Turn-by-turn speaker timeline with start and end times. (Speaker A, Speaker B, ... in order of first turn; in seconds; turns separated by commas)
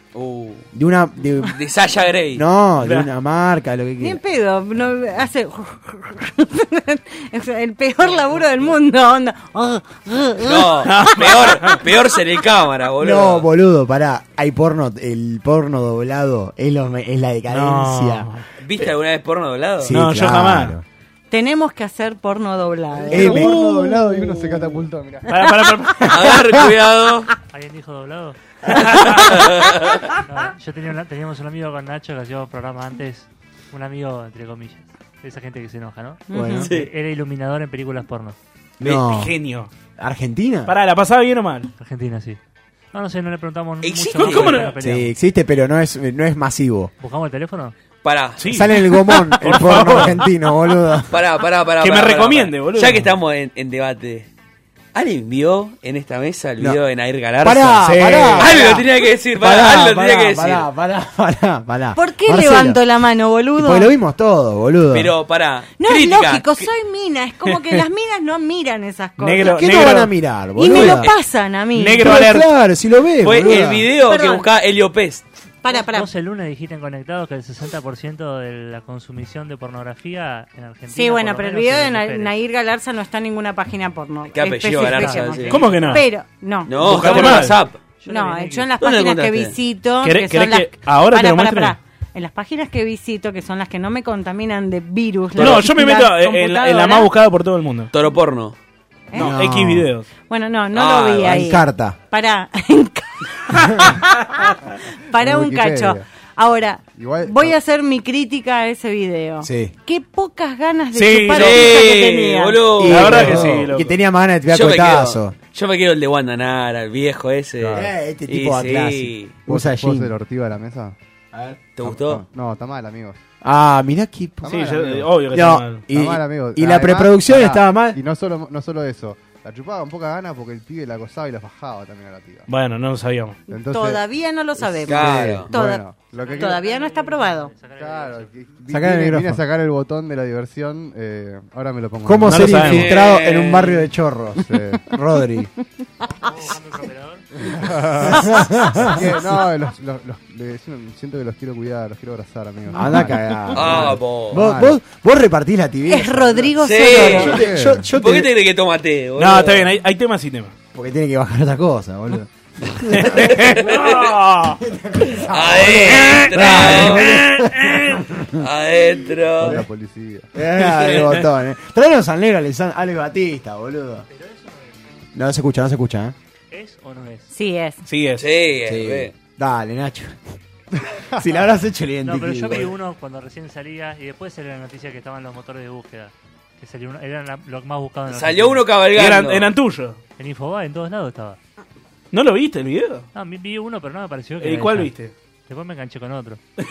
Speaker A: 0.1-0.7, Speaker B: 0.7-1.6, Speaker A: 1.4-2.4, Speaker B: 2.3-4.2, Speaker C: 2.8-3.1, Speaker D: 4.0-11.5, Speaker A: 10.4-13.5, Speaker C: 10.8-11.8, Speaker B: 13.0-18.3, Speaker C: 17.5-18.4, Speaker A: 18.6-19.9, Speaker B: 19.8-20.8, Speaker C: 19.9-20.8, Speaker D: 21.3-23.5, Speaker E: 22.9-25.3, Speaker B: 23.1-24.4, Speaker C: 25.3-26.2, Speaker A: 26.0-27.3, Speaker F: 27.5-28.4, Speaker A: 29.2-30.0, Speaker F: 30.3-38.4, Speaker D: 36.3-36.7, Speaker B: 36.3-36.7, Speaker A: 36.6-36.9, Speaker B: 38.8-39.3, Speaker C: 38.8-39.7, Speaker B: 40.0-40.7, Speaker C: 40.7-41.7, Speaker F: 41.8-42.4, Speaker F: 42.9-45.1, Speaker A: 43.8-44.8, Speaker C: 44.2-44.8, Speaker B: 44.8-46.9, Speaker F: 47.0-47.8, Speaker A: 48.0-48.4, Speaker C: 48.4-50.3, Speaker B: 48.5-51.2, Speaker A: 51.1-54.3, Speaker C: 51.8-53.1, Speaker A: 54.9-60.7, Speaker B: 57.4-62.8, Speaker D: 62.0-63.9, Speaker B: 63.6-65.1, Speaker A: 64.9-66.7, Speaker D: 65.8-69.7, Speaker C: 69.2-70.1, Speaker B: 69.4-71.1, Speaker D: 70.6-72.1, Speaker A: 70.8-71.0, Speaker C: 71.7-72.5, Speaker B: 71.9-73.9, Speaker A: 73.2-75.2, Speaker D: 74.1-74.5, Speaker D: 75.6-76.1, Speaker F: 75.7-82.3, Speaker D: 80.9-87.5, Speaker A: 84.3-85.7, Speaker F: 84.8-86.0, Speaker C: 85.5-86.0, Speaker A: 86.7-87.8, Speaker C: 86.8-87.6, Speaker F: 88.0-88.8, Speaker D: 88.1-97.1, Speaker A: 88.8-89.5, Speaker C: 90.0-91.8, Speaker C: 95.4-97.9, Speaker A: 97.9-98.6, Speaker D: 99.1-99.4, Speaker B: 99.1-99.9, Speaker C: 99.2-100.1, Speaker D: 100.3-104.5, Speaker A: 100.7-101.5, Speaker B: 101.2-102.0, Speaker D: 105.1-112.8, Speaker E: 105.2-106.0, Speaker E: 106.9-107.6, Speaker B: 109.4-109.7, Speaker C: 110.9-111.9, Speaker A: 111.3-113.5, Speaker B: 112.8-115.3, Speaker C: 112.8-113.9, Speaker A: 114.5-119.4, Speaker E: 117.6-117.9, Speaker B: 117.7-120.1, Speaker E: 119.5-121.0, Speaker B: 121.3-121.6, Speaker A: 121.8-122.2, Speaker E: 121.8-123.2, Speaker B: 123.4-124.6, Speaker E: 124.4-125.2, Speaker C: 124.5-125.9, Speaker B: 125.3-128.0, Speaker E: 125.9-132.5, Speaker C: 132.5-133.4, Speaker E: 133.5-134.0, Speaker D: 133.5-135.8, Speaker E: 134.6-136.7, Speaker A: 134.8-135.5, Speaker F: 136.1-138.6, Speaker D: 136.4-137.5, Speaker E: 137.7-142.8, Speaker B: 138.7-139.4, Speaker B: 142.0-145.5, Speaker C: 142.2-142.9, Speaker A: 142.6-143.8, Speaker E: 144.4-144.8, Speaker F: 146.2-147.7, Speaker E: 147.4-154.8, Speaker B: 148.0-149.2, Speaker B: 152.7-158.3, Speaker A: 153.5-154.4, Speaker D: 155.9-157.4, Speaker A: 156.6-157.4, Speaker E: 157.2-157.9, Speaker A: 157.9-159.7, Speaker C: 159.2-160.5, Speaker B: 160.7-163.6, Speaker C: 162.9-164.6, Speaker A: 163.3-164.1, Speaker B: 164.6-168.4, Speaker A: 165.3-167.2, Speaker C: 165.9-168.0, Speaker A: 168.4-169.6, Speaker E: 169.4-170.3, Speaker B: 170.3-174.1, Speaker F: 174.2-174.5, Speaker B: 175.2-176.2, Speaker F: 176.5-177.3, Speaker D: 177.3-177.8, Speaker C: 177.9-178.2, Speaker A: 178.2-179.1, Speaker B: 178.7-180.2, Speaker B: 181.2-182.7, Speaker F: 182.0-188.7, Speaker A: 188.1-189.5, Speaker C: 188.9-190.0, Speaker F: 190.2-191.4, Speaker C: 192.1-193.1, Speaker F: 193.1-194.9, Speaker C: 194.4-195.1, Speaker F: 195.5-196.4